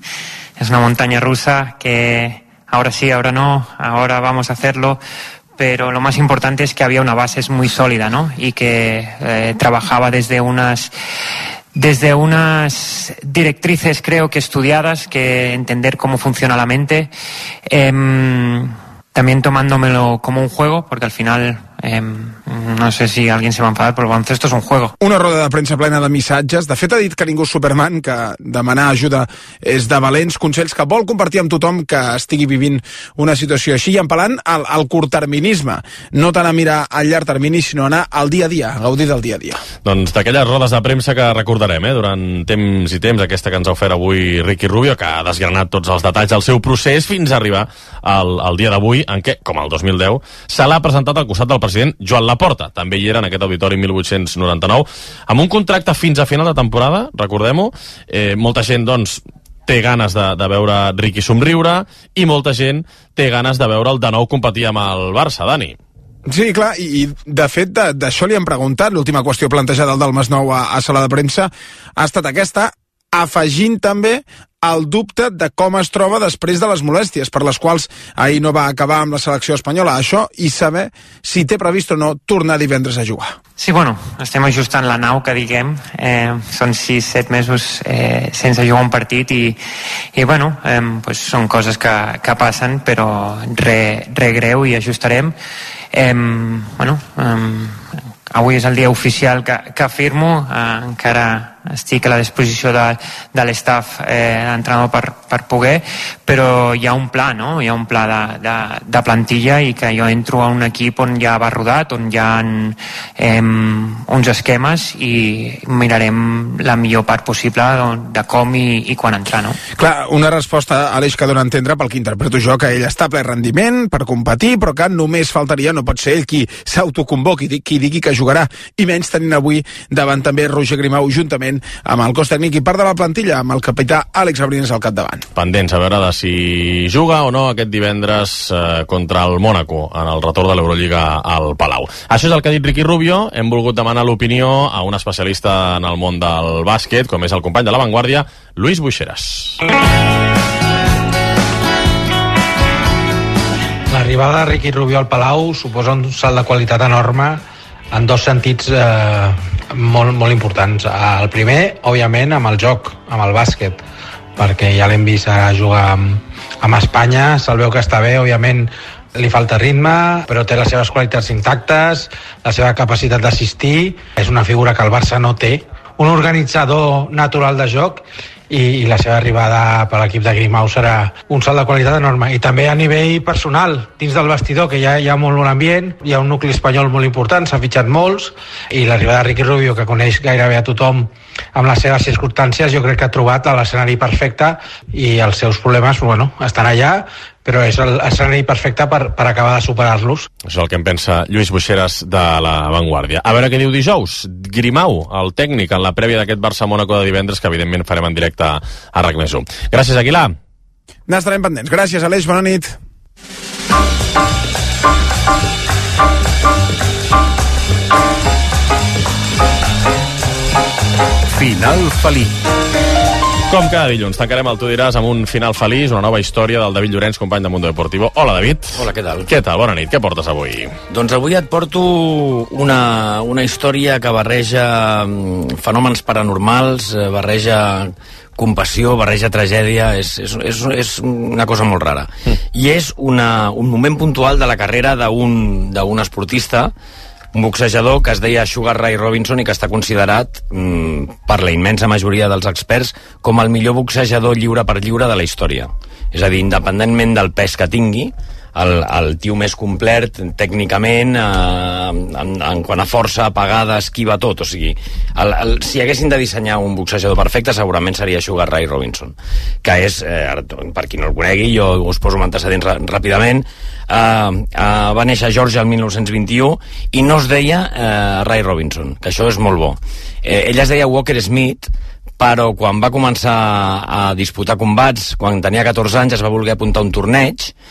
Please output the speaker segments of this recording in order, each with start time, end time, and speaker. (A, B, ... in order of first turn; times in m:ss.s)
0:00.6-0:05.0 A
0:05.6-0:10.9 A
0:11.7-0:17.1 A
0:17.6-0:24.9 A
0:25.0-0:39.6 B
0:39.8-1:05.8 C
1:06.3-1:23.3 B
1:23.6-1:29.6 A
1:30.1-1:35.4 A
1:35.9-1:59.6 A
1:59.8-2:15.2 B
2:15.4-2:29.6 C
2:33.9-2:43.8 D
2:44.4-3:20.3 D
3:20.4-3:30.3 C
3:31.1-3:32.7 B
3:41.4-3:42.3 E
3:43.5-3:50.8 C
3:48.7-3:49.3 E
3:50.9-4:06.7 E
4:07.3-4:47.5 E